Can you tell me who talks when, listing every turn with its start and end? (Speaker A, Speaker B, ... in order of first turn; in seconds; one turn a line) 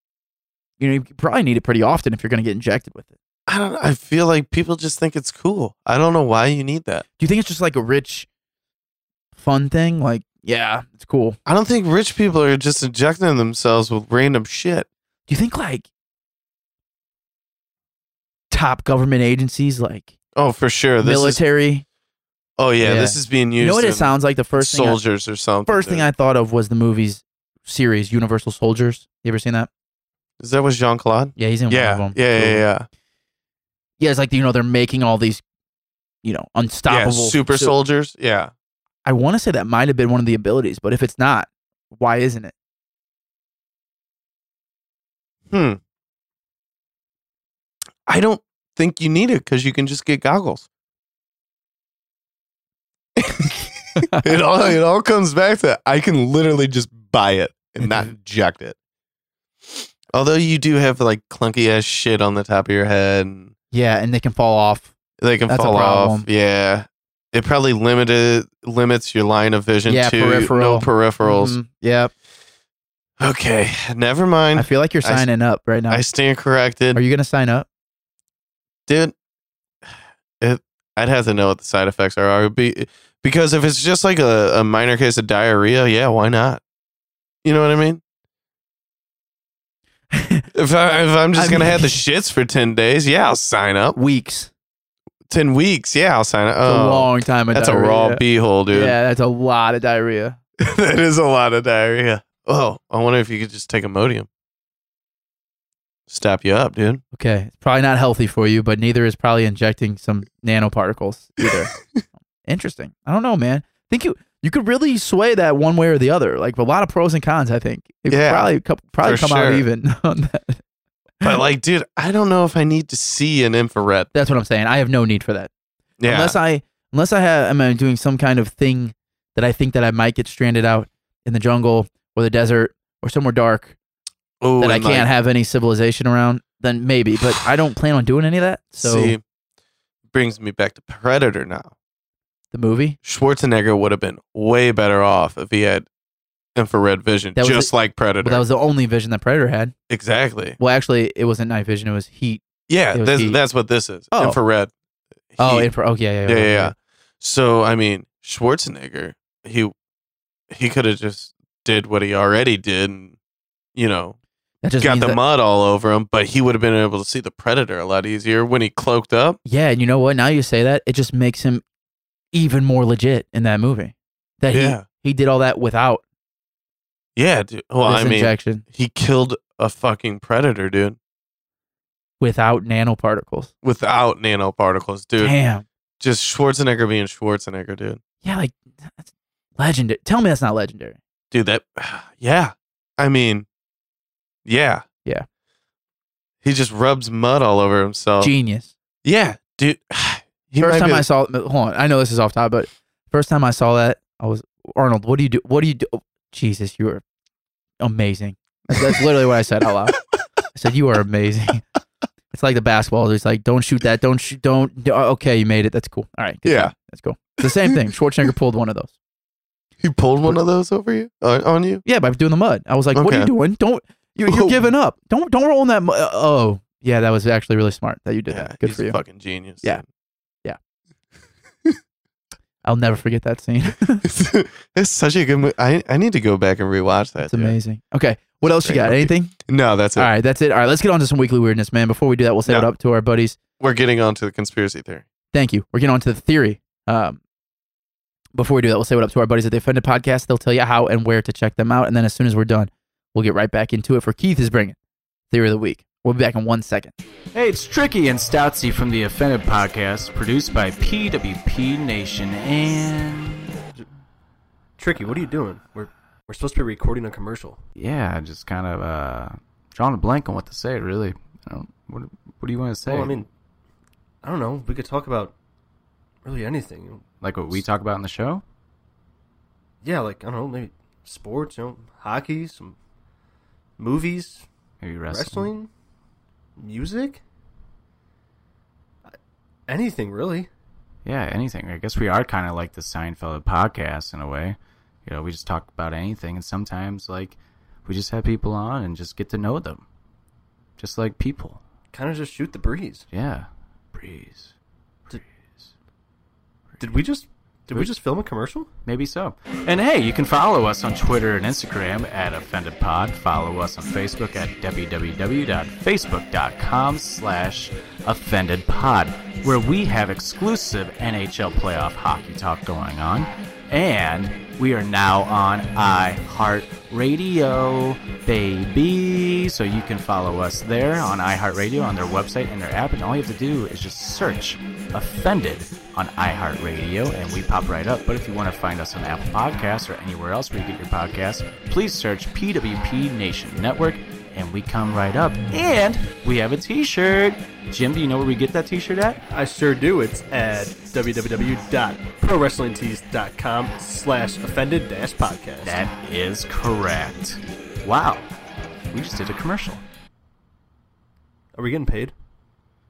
Speaker A: 0.8-3.1
Speaker B: 3.5-7.0
Speaker A: 7.2-8.3
Speaker A: 9.4-11.4
Speaker B: 11.5-14.9
Speaker A: 15.3-15.9
Speaker A: 18.5-20.1
Speaker B: 20.4-21.4
Speaker A: 21.0-21.9
Speaker B: 22.6-26.1
Speaker A: 22.8-25.0
Speaker A: 25.7-29.7
Speaker B: 30.4-32.9
Speaker A: 31.4-32.6
Speaker A: 34.0-35.4
Speaker A: 36.2-37.7
Speaker B: 36.9-38.5
Speaker A: 39.0-42.5
Speaker B: 45.5-45.8
Speaker B: 48.1-50.7
Speaker B: 53.2-58.8
Speaker A: 57.8-58.1
Speaker B: 60.1-63.5
Speaker A: 63.7-64.9
Speaker B: 65.2-71.6
Speaker A: 65.5-66.3
Speaker A: 69.9-72.1
Speaker B: 73.2-75.3
Speaker A: 74.5-76.0
Speaker B: 75.9-77.0
Speaker A: 76.9-77.7
Speaker B: 78.9-79.2
Speaker B: 80.4-86.6
Speaker B: 87.4-88.0
Speaker A: 90.1-90.5
Speaker B: 90.5-94.0
Speaker A: 91.3-92.0
Speaker A: 94.0-94.5
Speaker B: 95.3-99.0
Speaker A: 96.7-100.4
Speaker B: 100.6-104.3
Speaker B: 106.1-107.0
Speaker A: 107.1-111.7
Speaker A: 112.4-120.6
Speaker B: 118.1-119.7
Speaker B: 121.2-124.1
Speaker A: 124.1-125.5
Speaker B: 126.0-126.4
Speaker A: 126.1-133.8
Speaker B: 134.4-135.1
Speaker A: 134.6-139.2
Speaker B: 138.8-139.2
Speaker B: 140.1-141.7
Speaker A: 142.5-143.0
Speaker B: 143.0-145.9
Speaker B: 146.6-148.4
Speaker A: 147.4-149.7
Speaker B: 149.9-150.6
Speaker A: 150.6-153.4
Speaker B: 152.7-154.7
Speaker A: 154.1-154.4
Speaker B: 155.3-155.7
Speaker A: 155.4-156.7
Speaker B: 156.3-159.7
Speaker B: 160.5-163.2
Speaker B: 163.8-164.2
Speaker A: 164.6-165.2
Speaker B: 164.8-169.4
Speaker A: 169.4-171.6
Speaker A: 172.3-176.0
Speaker B: 174.5-174.8
Speaker B: 177.2-181.0
Speaker A: 177.8-178.6
Speaker A: 182.2-183.5
Speaker B: 183.6-185.3
Speaker A: 185.2-185.7
Speaker B: 186.0-188.0
Speaker A: 188.2-191.0
Speaker B: 191.3-193.5
Speaker B: 194.4-194.8
Speaker B: 196.4-198.3
Speaker A: 198.2-198.7
Speaker B: 199.0-201.1
Speaker A: 200.6-207.0
Speaker A: 207.8-210.0
Speaker B: 208.7-209.0
Speaker A: 210.5-211.6
Speaker A: 212.3-218.9
Speaker B: 216.4-216.7
Speaker B: 217.5-217.8
Speaker B: 219.8-221.8
Speaker A: 221.8-229.0
Speaker B: 222.9-223.3
Speaker B: 224.3-224.7
Speaker B: 228.3-229.8
Speaker A: 232.6-234.0
Speaker B: 234.0-237.6
Speaker A: 237.2-239.4
Speaker B: 238.4-240.1
Speaker A: 240.0-243.4
Speaker B: 243.6-245.1
Speaker A: 245.3-247.2
Speaker A: 248.3-254.8
Speaker A: 255.3-256.9
Speaker C: 257.3-263.5
Speaker D: 264.8-267.6
Speaker C: 267.8-273.2
Speaker D: 272.9-273.3
Speaker D: 274.2-275.3
Speaker D: 276.2-277.6
Speaker C: 277.2-278.4
Speaker D: 279.8-282.8
Speaker D: 283.8-284.4
Speaker C: 284.8-285.5
Speaker D: 285.1-285.7
Speaker D: 286.6-287.2
Speaker D: 289.7-290.5
Speaker C: 291.1-299.9
Speaker C: 300.8-301.6
Speaker D: 301.9-303.1
Speaker C: 303.1-304.5
Speaker D: 306.8-308.7
Speaker C: 308.9-349.2
Speaker D: 349.3-355.8
Speaker C: 355.6-358.3
Speaker C: 358.9-359.8
Speaker D: 361.6-362.1